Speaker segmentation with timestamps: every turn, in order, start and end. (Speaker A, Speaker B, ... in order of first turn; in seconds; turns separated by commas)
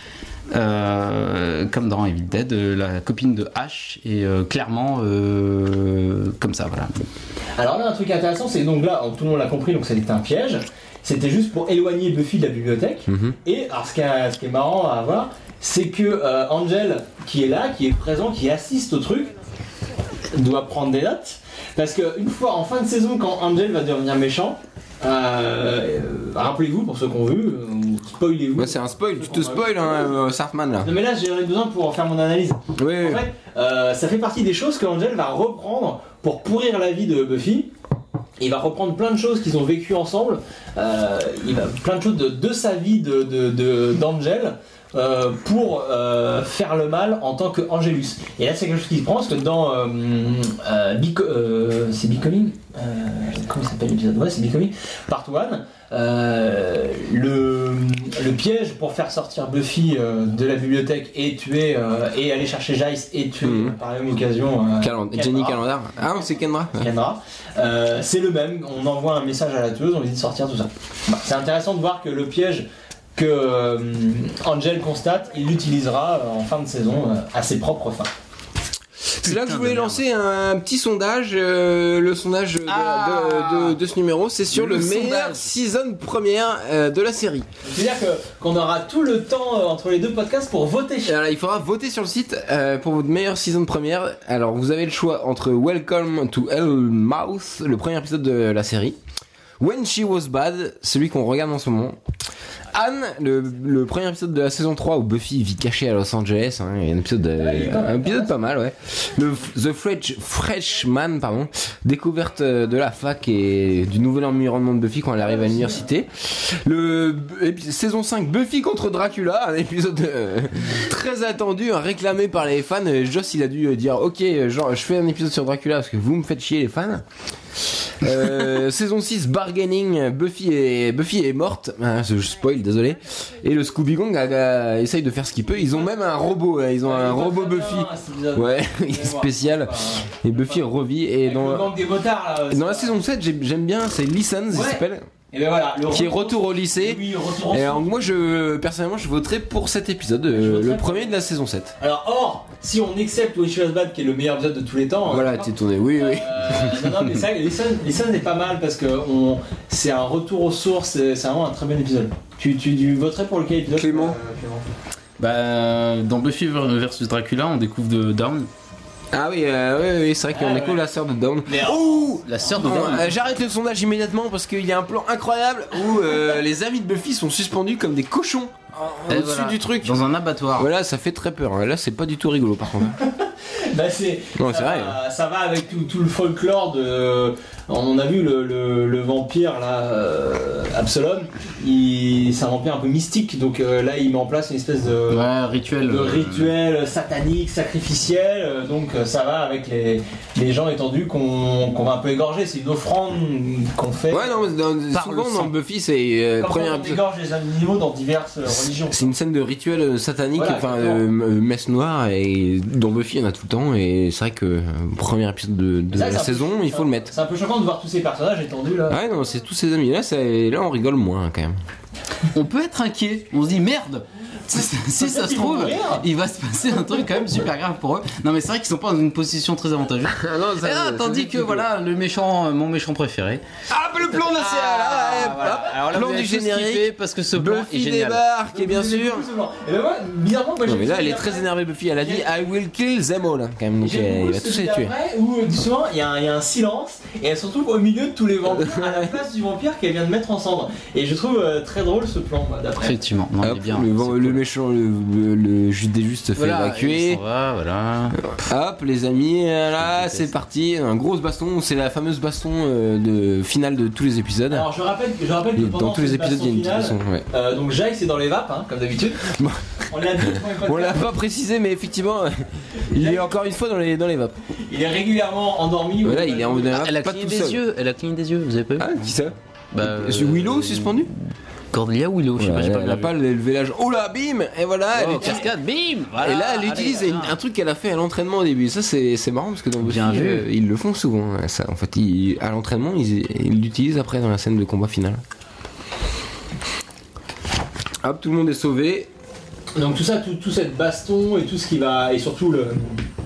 Speaker A: 0.5-7.0, Speaker B: 7.6-19.3, Speaker C: 13.1-13.3, Speaker B: 20.3-30.1, Speaker C: 28.6-30.9, Speaker B: 30.8-37.7, Speaker C: 32.8-33.2, Speaker B: 38.4-66.2, Speaker C: 63.4-63.7, Speaker C: 64.8-66.9, Speaker B: 66.7-78.1, Speaker C: 79.2-87.5, Speaker A: 79.2-80.0, Speaker A: 82.7-83.8, Speaker A: 84.5-85.5, Speaker B: 87.6-91.2, Speaker C: 91.0-99.0, Speaker C: 99.6-102.0, Speaker C: 102.7-127.0, Speaker B: 107.4-108.4, Speaker B: 115.2-115.9, Speaker C: 128.0-141.7, Speaker B: 135.6-135.9, Speaker B: 136.8-140.7, Speaker B: 141.2-143.0, Speaker C: 142.5-145.1, Speaker B: 144.5-148.1, Speaker C: 145.9-151.7, Speaker B: 150.3-151.2, Speaker B: 151.8-164.6, Speaker C: 155.1-156.9, Speaker C: 163.7-164.2, Speaker A: 165.2-168.5, Speaker C: 169.1-180.0, Speaker B: 170.3-170.8, Speaker B: 171.4-173.3, Speaker A: 172.3-173.1, Speaker A: 179.1-180.7, Speaker C: 180.6-183.0, Speaker B: 183.0-195.3, Speaker C: 184.3-185.0, Speaker A: 195.1-196.5, Speaker B: 195.8-204.5, Speaker C: 204.1-207.0, Speaker A: 204.9-205.5, Speaker B: 206.4-209.1, Speaker C: 208.6-217.1, Speaker B: 210.3-211.0, Speaker B: 215.9-219.0, Speaker C: 218.9-221.6, Speaker A: 222.3-233.4, Speaker B: 224.9-226.0, Speaker C: 230.1-231.7, Speaker C: 233.7-239.3, Speaker B: 234.1-235.8, Speaker A: 234.2-238.2, Speaker B: 238.5-242.3, Speaker C: 240.7-244.9, Speaker B: 243.8-253.0, Speaker C: 248.5-249.1, Speaker A: 252.8-254.4, Speaker C: 253.4-257.2, Speaker A: 256.4-258.4, Speaker C: 258.3-264.7, Speaker A: 259.8-260.3, Speaker B: 264.5-269.4, Speaker C: 265.6-267.3, Speaker C: 269.2-274.4, Speaker B: 269.9-271.0, Speaker B: 272.8-273.4, Speaker B: 274.6-276.8, Speaker C: 276.0-277.6, Speaker A: 276.7-279.1, Speaker C: 278.8-281.1, Speaker A: 279.7-281.1, Speaker A: 281.7-283.1, Speaker C: 282.4-285.5, Speaker A: 284.9-287.3, Speaker C: 286.2-295.2, Speaker A: 289.8-290.4, Speaker C: 298.0-299.1, Speaker B: 299.8-303.0